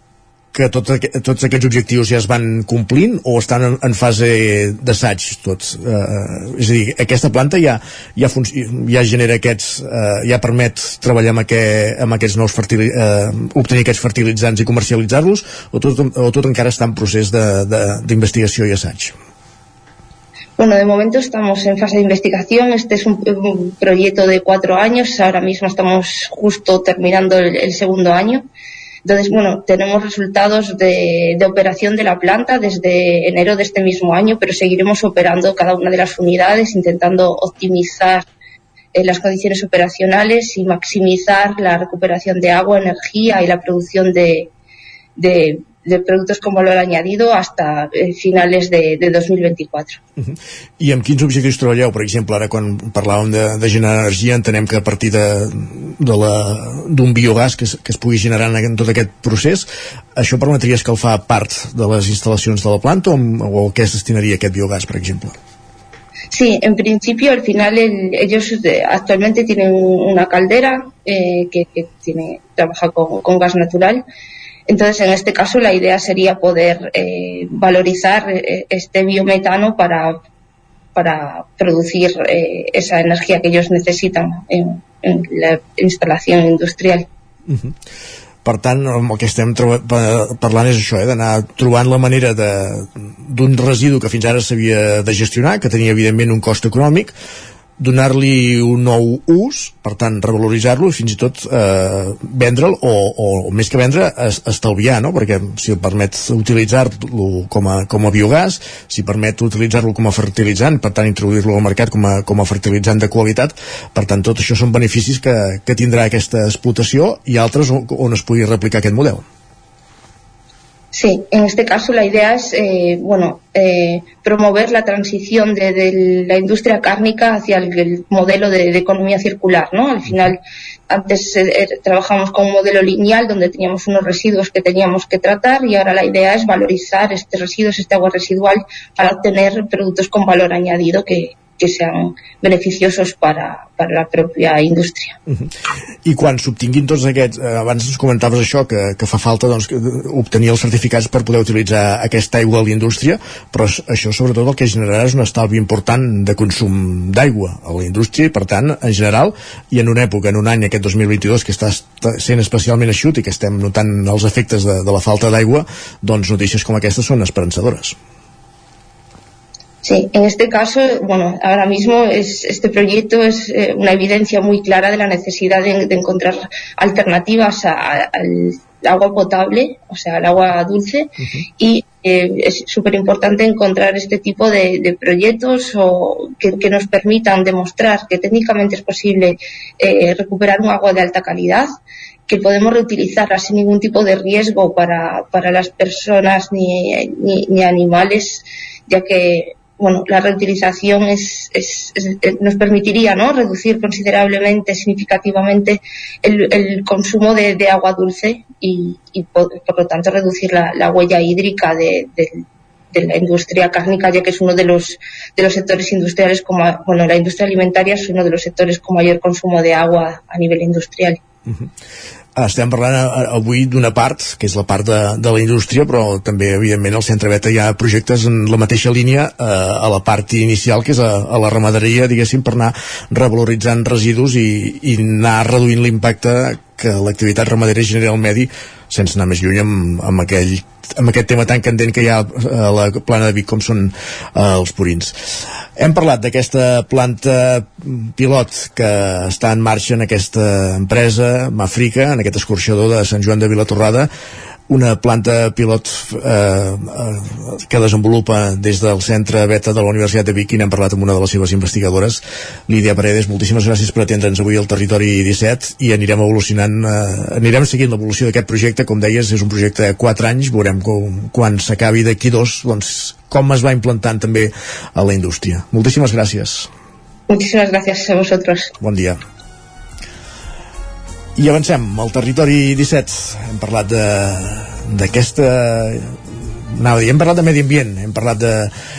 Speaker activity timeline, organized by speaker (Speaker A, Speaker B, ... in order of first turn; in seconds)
Speaker A: 0.5-19.1, 50.2-65.4, 87.5-87.7, 88.5-97.1, 97.8-119.2, 146.1-168.0, 222.4-245.1, 245.8-254.1, 254.7-276.7, 278.8-279.2, 281.4-286.2, 286.7-288.7
Speaker B: 20.6-28.4, 29.1-38.3, 39.0-44.5, 45.2-50.0, 66.3-74.0, 74.7-80.2, 81.0-87.1, 120.9-145.2, 169.8-191.7, 192.3-221.2, 277.3-278.7